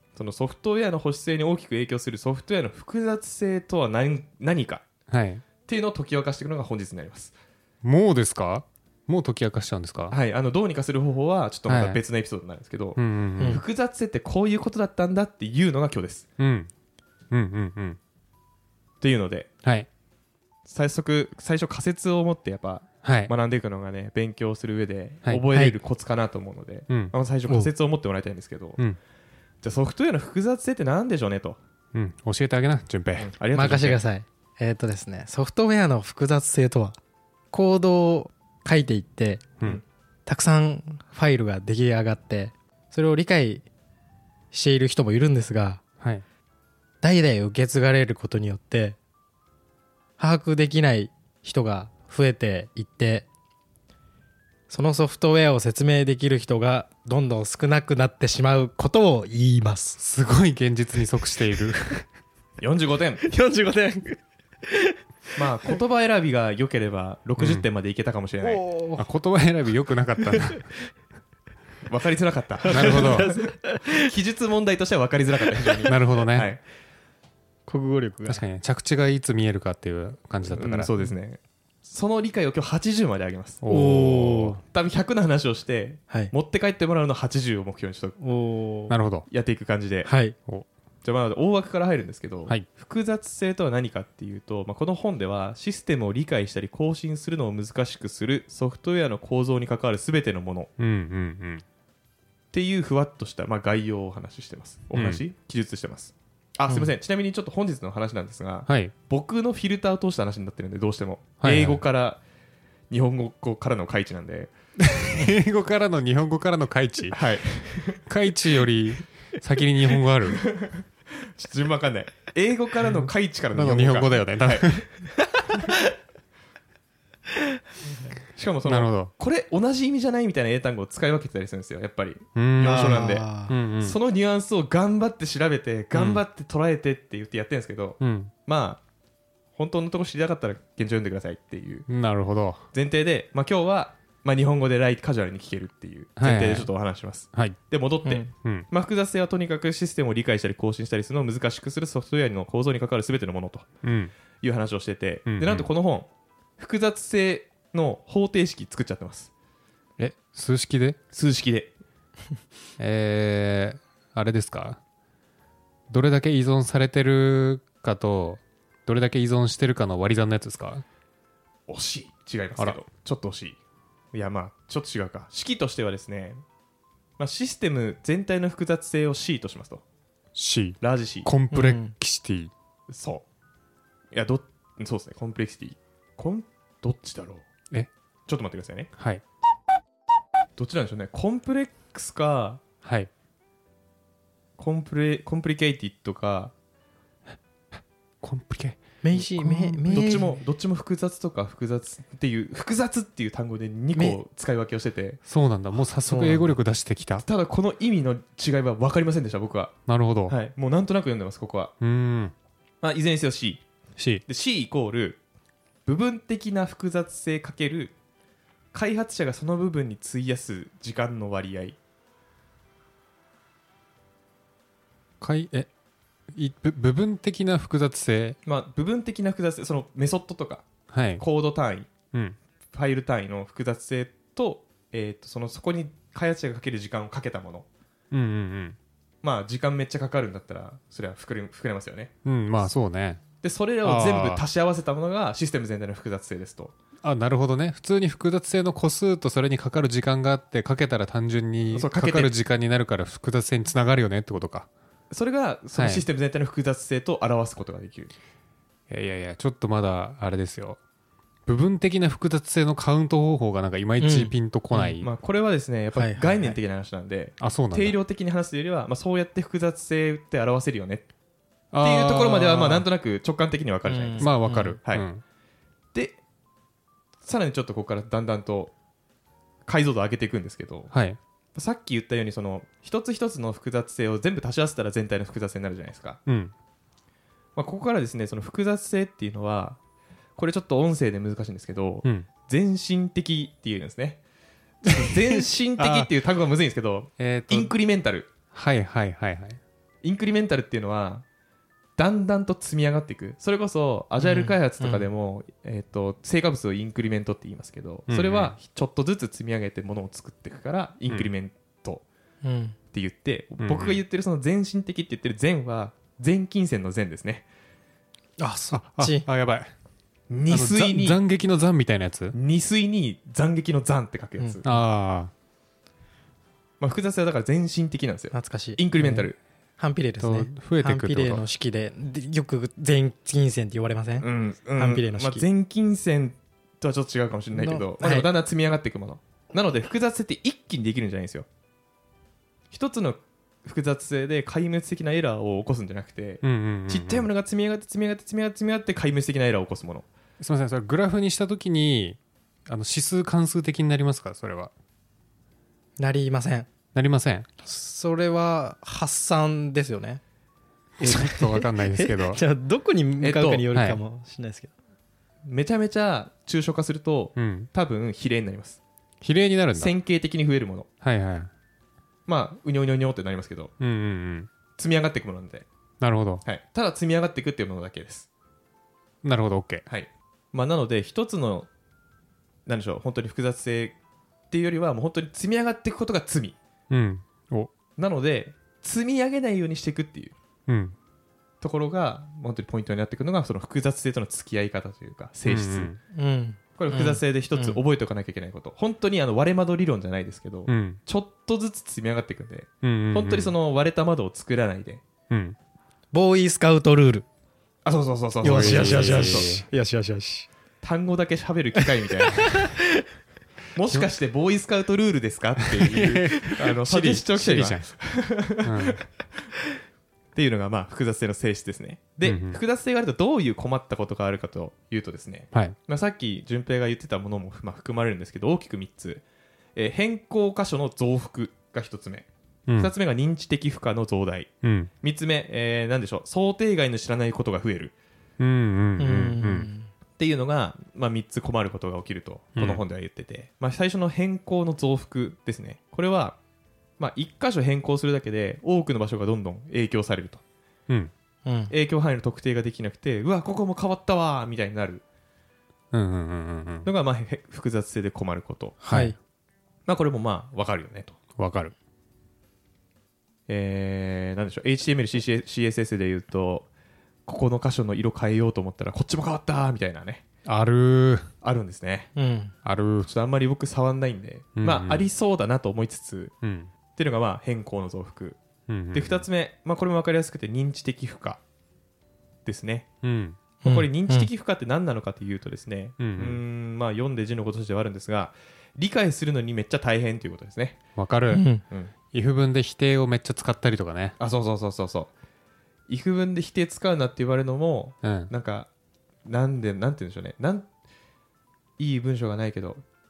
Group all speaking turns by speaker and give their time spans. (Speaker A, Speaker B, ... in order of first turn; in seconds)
Speaker A: 0.2-4.9, 5.7-7.3, 10.1-16.3, 19.0-19.5, 20.7-28.8, 29.6-31.6, 33.1-34.0, 62.6-63.2, 65.4-68.6, 71.9-76.6, 80.5-88.2, 89.3-90.1, 91.0-100.7, 102.5-112.2, 112.9-114.5, 117.1-118.1, 120.4-124.9, 128.3-133.3, 133.8-138.8, 139.6-141.9, 142.7-153.7, 154.4-159.3, 161.1-161.7, 171.7-173.6, 174.1-176.4, 177.2-179.8, 180.8-181.3, 182.9-183.2, 184.1-187.5, 188.3-188.9, 190.6-192.6, 194.6-196.5, 199.8-205.2, 206.1-206.5, 207.2-209.8, 210.3-211.7, 212.8-213.6, 214.3-215.2, 215.9-217.9, 218.7-221.8, 228.4-230.7, 231.2-231.9, 232.7-237.7, 239.2-242.1, 243.4-246.8, 251.7-252.3, 255.1-258.1, 265.0-271.1, 271.8-275.1, 275.9-276.2, 277.2-278.7, 279.7-280.9, 281.6-286.2, 287.6-289.8, 290.4-294.2, 294.8-298.3, 300.0-301.2, 302.0-312.1, 312.9-317.5, 320.3-321.2, 322.3-324.6, 326.8-329.4, 334.2-341.5, 342.7-350.1, 363.2-363.6, 365.5-368.8, 369.8-370.9, 372.3-373.7, 374.8-375.7, 376.4-378.3, 379.9-381.7, 382.7-384.0, 384.5-386.6, 388.0-390.4, 391.6-395.9, 396.8-405.0, 407.9-409.6, 410.8-412.7, 413.7-419.0, 420.4-429.2, 429.8-437.9, 440.2-446.4, 447.0-450.4, 451.7-455.0, 456.9-458.8, 459.9-461.2, 463.5-466.7, 467.3-470.2, 471.4-472.1, 473.1-476.3, 476.9-478.4, 478.9-481.4, 482.5-482.9, 483.6-490.8, 494.2-495.1, 495.9-498.7, 499.2-500.7, 501.8-502.8
Speaker B: 5.1-5.4, 7.8-10.2, 11.7-12.0, 13.0-13.6, 16.4-16.7, 17.3-18.0, 23.0-23.3, 31.9-33.4, 60.0-62.0, 67.4-67.7, 69.0-70.7, 72.7-73.3, 75.9-76.5, 78.3-80.9, 83.6-84.6, 88.9-89.3, 100.8-101.6, 104.9-105.2, 108.7-108.9, 111.4-111.8, 114.8-117.3, 117.9-120.5, 123.5-124.9, 128.7-129.1, 132.4-134.0, 135.9-136.2, 138.0-138.3, 141.9-142.6, 146.2-146.7, 147.3-148.7, 153.8-154.1, 155.3-155.7, 160.0-161.0, 162.8-164.8, 165.9-170.8, 180.3-182.5, 189.0-189.2, 192.8-193.1, 198.2-199.9, 205.2-207.2, 209.9-210.3, 211.8-212.3, 214.0-214.2, 225.2-225.7, 226.3-228.4, 230.9-231.2, 238.1-238.8, 242.2-243.2, 243.8-244.4, 247.0-254.7, 255.7-256.1, 258.9-260.8, 261.5-265.1, 267.4-268.0, 271.7-272.9, 274.2-275.2, 280.9-281.2, 286.3-286.5, 295.8-296.1, 297.2-297.7, 298.5-299.6, 308.1-308.6, 313.6-314.0, 318.7-319.7, 320.5-322.4, 324.6-325.3, 330.2-331.4, 346.4-347.3, 350.4-354.7, 356.9-357.5, 361.0-362.4, 363.7-364.0, 367.4-367.7, 369.2-369.9, 371.0-371.5, 373.8-374.5, 376.0-376.4, 379.2-379.8, 386.9-387.7, 390.7-390.9, 395.5-396.0, 400.7-401.0, 402.8-403.5, 405.3-405.6, 408.4-409.6, 415.7-418.0, 418.6-419.0, 422.2-422.6, 432.7-432.9, 434.6-434.9, 438.4-439.7, 442.6-442.8, 455.9-456.9, 458.9-459.1, 461.4-461.8, 470.4-471.3, 472.6-473.1, 474.6-475.1, 476.4-476.7, 478.7-479.3, 483.0-483.4, 486.0-486.4, 491.0-491.5, 492.1-494.2, 498.0-498.3
Speaker C: 33.5-37.0, 37.5-39.5, 40.3-43.7, 44.5-45.8, 47.0-49.0, 50.2-53.3, 54.7-60.0, 63.2-65.0, 68.4-69.0, 70.2-70.7, 72.6-74.1, 77.7-78.4, 83.7-84.6, 88.2-89.0, 90.0-90.3, 132.6-133.6, 181.5-181.9, 199.0-200.4, 264.0-264.9, 265.9-266.6, 273.9-274.8, 304.2-305.1, 312.4-312.8, 318.4-319.3, 328.3-329.3, 329.8-335.4, 337.5-338.3, 356.0-356.7, 357.6-360.2, 361.0-364.7, 396.1-397.8, 406.1-407.3, 408.4-410.5, 412.2-412.8, 439.0-439.9, 451.4-451.7, 458.8-459.2, 472.2-472.5, 483.6-484.3, 491.3-491.6